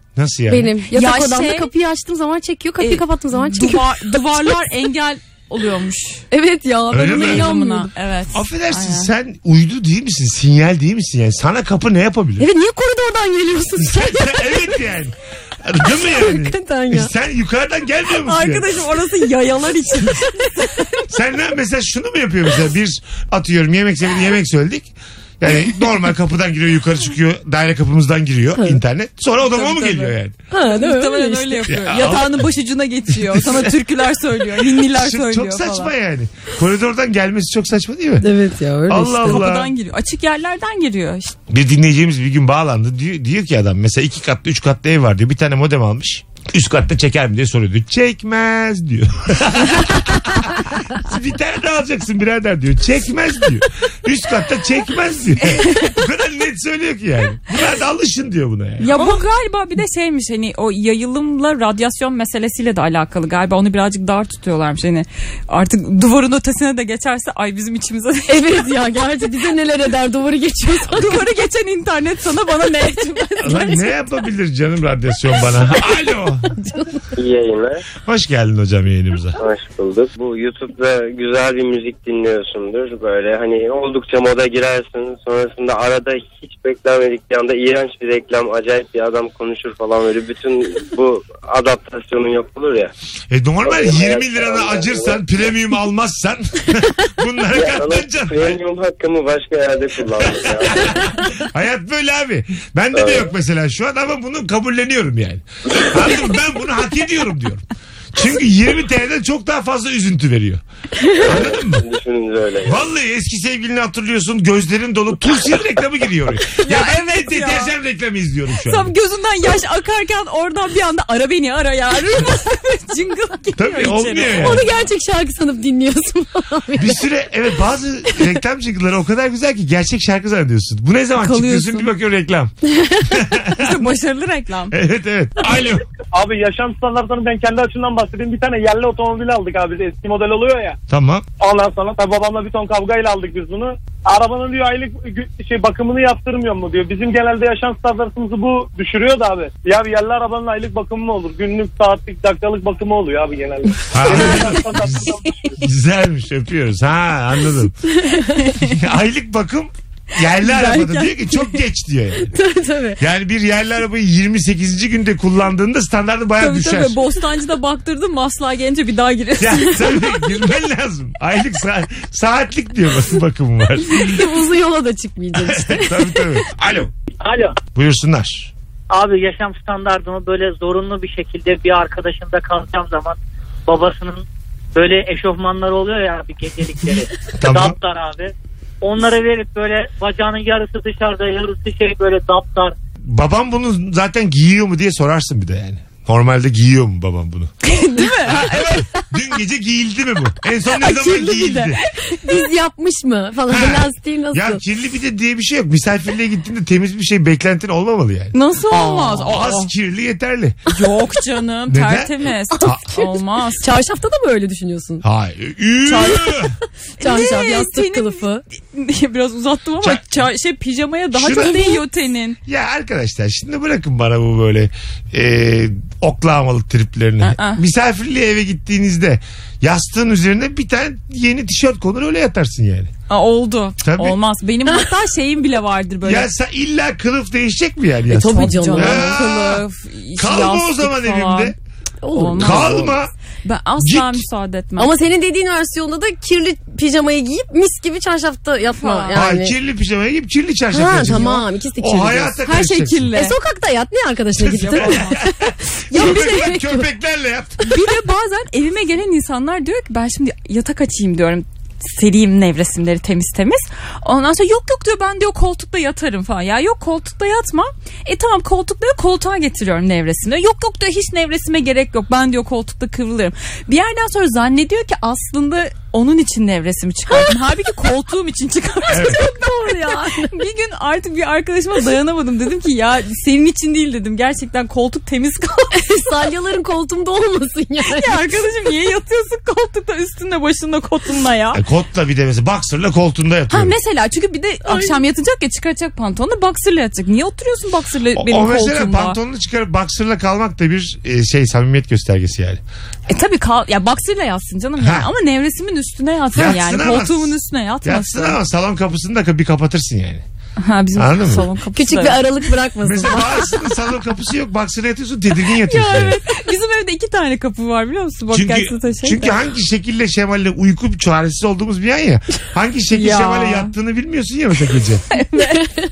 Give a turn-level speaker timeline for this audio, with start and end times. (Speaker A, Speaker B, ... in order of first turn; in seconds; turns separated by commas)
Speaker A: 0.1-0.7, Speaker B: 0.5-4.1, Speaker C: 0.9-1.7, Speaker C: 2.8-6.2, Speaker B: 6.3-7.9, Speaker A: 6.9-7.5, Speaker C: 6.9-9.1, Speaker A: 8.3-12.4, Speaker B: 12.4-14.8, Speaker A: 13.8-18.6, Speaker B: 15.9-17.1, Speaker C: 18.2-20.8, Speaker A: 21.1-30.3, Speaker B: 28.5-28.8, Speaker C: 29.5-30.1, Speaker B: 30.5-31.8, Speaker C: 30.7-35.9, Speaker A: 31.7-32.5, Speaker A: 33.2-33.7, Speaker A: 34.9-38.2, Speaker B: 38.2-39.5, Speaker A: 38.9-39.7, Speaker C: 39.2-41.3, Speaker A: 41.5-59.1, Speaker C: 58.8-68.7, Speaker B: 68.3-71.3, Speaker C: 70.9-74.0, Speaker A: 73.4-76.5, Speaker D: 77.2-77.8, Speaker A: 78.0-79.4, Speaker D: 79.4-92.9, Speaker A: 93.3-98.6, Speaker D: 93.6-95.2, Speaker D: 97.5-101.0, Speaker A: 100.3-110.6, Speaker D: 102.9-103.3, Speaker D: 111.2-112.9, Speaker A: 111.2-111.8, Speaker A: 112.7-118.9, Speaker C: 116.6-117.7, Speaker C: 118.6-124.7, Speaker A: 123.6-124.6, Speaker B: 124.3-127.0, Speaker A: 126.8-132.5, Speaker C: 131.2-131.9, Speaker B: 132.7-133.2, Speaker A: 133.1-133.8, Speaker C: 133.6-134.7, Speaker A: 134.7-135.8, Speaker E: 136.1-140.8, Speaker A: 140.9-141.2, Speaker E: 141.4-155.5, Speaker A: 153.9-157.7, Speaker B: 157.8-158.5, Speaker C: 158.3-158.7, Speaker A: 158.6-162.3, Speaker C: 160.4-161.6, Speaker B: 162.3-163.0, Speaker A: 163.0-166.9, Speaker C: 166.4-170.0, Speaker A: 169.4-174.2, Speaker B: 173.9-176.3, Speaker A: 175.4-176.9, Speaker F: 177.2-177.6, Speaker A: 177.7-178.5, Speaker F: 178.9-192.7, Speaker A: 187.4-187.8, Speaker A: 193.0-197.5, Speaker C: 197.6-199.0, Speaker A: 198.2-201.8, Speaker C: 200.8-202.4, Speaker B: 202.2-204.6, Speaker A: 203.5-208.3, Speaker C: 208.3-209.7, Speaker B: 208.7-209.4, Speaker A: 209.2-210.6, Speaker C: 210.7-213.7, Speaker A: 211.7-212.9, Speaker B: 212.6-215.0, Speaker A: 215.0-216.5, Speaker C: 215.8-216.2, Speaker B: 215.9-216.3, Speaker C: 217.0-222.4, Speaker B: 217.0-218.4, Speaker A: 221.1-221.8, Speaker A: 222.4-232.9, Speaker C: 227.2-227.6, Speaker C: 233.1-236.3, Speaker A: 233.8-234.2, Speaker A: 236.0-239.6, Speaker B: 238.1-239.2, Speaker C: 238.3-241.5, Speaker A: 240.2-241.5, Speaker B: 242.0-243.0, Speaker C: 242.1-244.9, Speaker A: 242.4-243.1, Speaker A: 243.8-244.2, Speaker B: 244.8-249.6, Speaker C: 248.7-249.2, Speaker A: 249.1-253.1, Speaker B: 250.7-252.4, Speaker C: 252.4-253.3, Speaker B: 253.1-256.9, Speaker A: 254.4-255.3, Speaker C: 254.5-255.2, Speaker A: 255.9-257.6, Speaker C: 256.0-256.4, Speaker C: 257.6-285.8, Speaker B: 277.1-277.3, Speaker A: 278.9-279.2, Speaker B: 278.9-280.4, Speaker B: 285.7-288.2, Speaker C: 287.9-291.6, Speaker A: 291.5-293.7, Speaker C: 293.5-299.2, Speaker B: 294.6-295.0, Speaker A: 298.1-302.6, Speaker C: 303.1-308.4, Speaker A: 304.8-305.1, Speaker A: 306.3-310.2, Speaker C: 310.6-312.2, Speaker A: 310.9-311.5, Speaker B: 311.7-313.6, Speaker A: 312.8-316.2, Speaker C: 315.6-319.4, Speaker A: 318.3-325.0, Speaker C: 322.9-323.7, Speaker C: 325.1-325.6, Speaker B: 325.4-325.8